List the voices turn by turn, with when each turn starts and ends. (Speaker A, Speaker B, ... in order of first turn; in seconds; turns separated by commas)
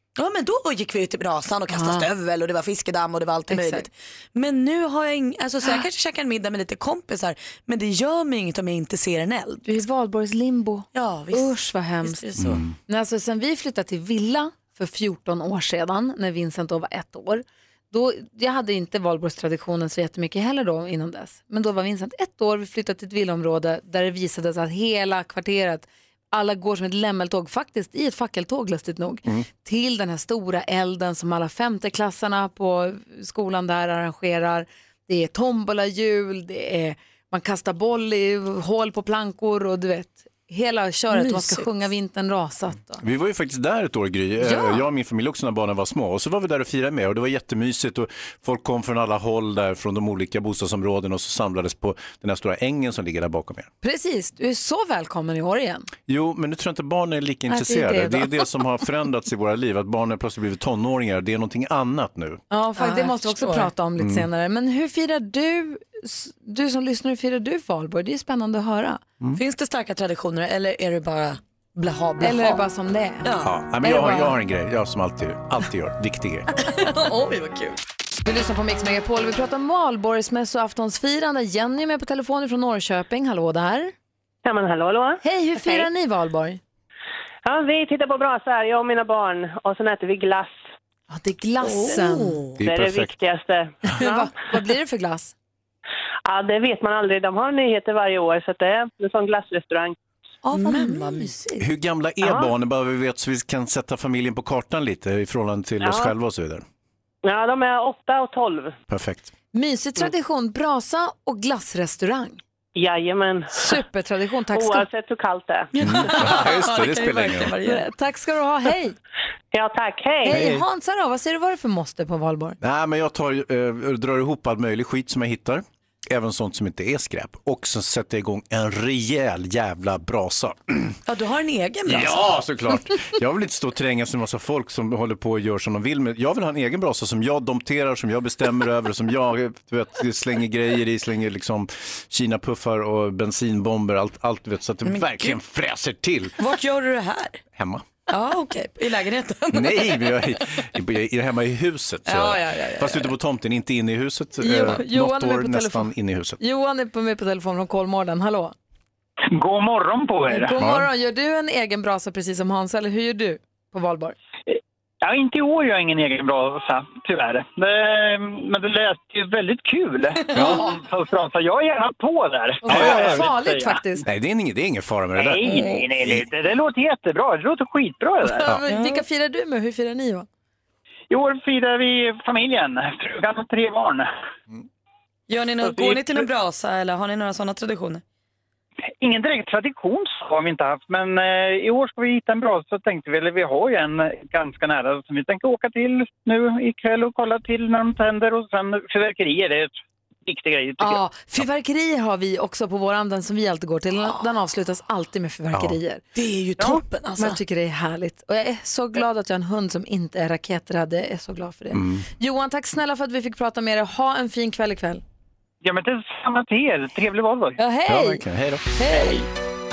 Speaker A: 0.2-9.8, Speaker B: 1.7-2.1, Speaker B: 3.5-3.9, Speaker B: 9.7-12.2, Speaker A: 10.9-12.6, Speaker C: 12.4-12.7, Speaker B: 12.9-43.0, Speaker A: 41.1-41.7, Speaker C: 43.0-53.7, Speaker B: 44.4-44.8, Speaker B: 53.8-55.9, Speaker C: 56.1-62.4, Speaker B: 57.5-58.5, Speaker B: 62.5-69.0, Speaker A: 62.8-63.7, Speaker C: 64.0-64.3, Speaker A: 69.4-72.6, Speaker B: 72.2-73.3, Speaker A: 73.2-73.5, Speaker C: 73.4-76.5, Speaker B: 73.8-74.3, Speaker A: 76.6-77.8, Speaker B: 78.2-83.9, Speaker D: 84.5-85.2, Speaker B: 85.2-86.6, Speaker D: 87.5-90.6, Speaker B: 91.1-92.4, Speaker A: 91.6-92.6, Speaker C: 92.6-93.1, Speaker D: 92.6-94.3, Speaker B: 93.9-95.3, Speaker D: 96.3-100.0, Speaker B: 100.4-101.6, Speaker A: 100.5-101.4, Speaker C: 101.6-106.6, Speaker D: 102.2-102.5, Speaker D: 105.8-106.1, Speaker D: 107.2-108.8, Speaker C: 108.9-109.3, Speaker B: 109.5-112.4, Speaker D: 112.8-113.7, Speaker B: 113.5-114.9, Speaker D: 114.5-115.7, Speaker A: 115.7-117.9, Speaker C: 115.8-117.5, Speaker B: 117.6-119.0, Speaker D: 119.5-120.3, Speaker B: 120.2-122.6, Speaker C: 120.3-120.6, Speaker C: 122.6-131.0, Speaker A: 131.1-132.2, Speaker C: 131.9-146.4, Speaker A: 144.8-145.4, Speaker A: 146.4-147.4, Speaker C: 147.6-147.9, Speaker A: 148.1-150.4, Speaker C: 149.5-156.4, Speaker A: 152.1-153.1, Speaker B: 154.4-158.5, Speaker E: 159.3-160.6, Speaker B: 160.3-164.2, Speaker C: 160.6-160.9, Speaker E: 164.5-173.8, Speaker C: 170.3-170.7, Speaker B: 172.6-174.0, Speaker C: 172.7-173.2, Speaker C: 174.0-176.2, Speaker E: 175.2-178.5, Speaker B: 178.3-180.3, Speaker A: 178.7-179.0, Speaker E: 181.1-184.1, Speaker A: 185.3-188.0, Speaker E: 189.0-199.7, Speaker E: 200.3-201.0, Speaker B: 200.8-206.0, Speaker C: 205.5-205.8, Speaker A: 206.2-207.4, Speaker B: 207.2-215.0, Speaker C: 211.7-212.1, Speaker E: 215.6-217.6, Speaker B: 217.6-219.3, Speaker C: 217.9-218.7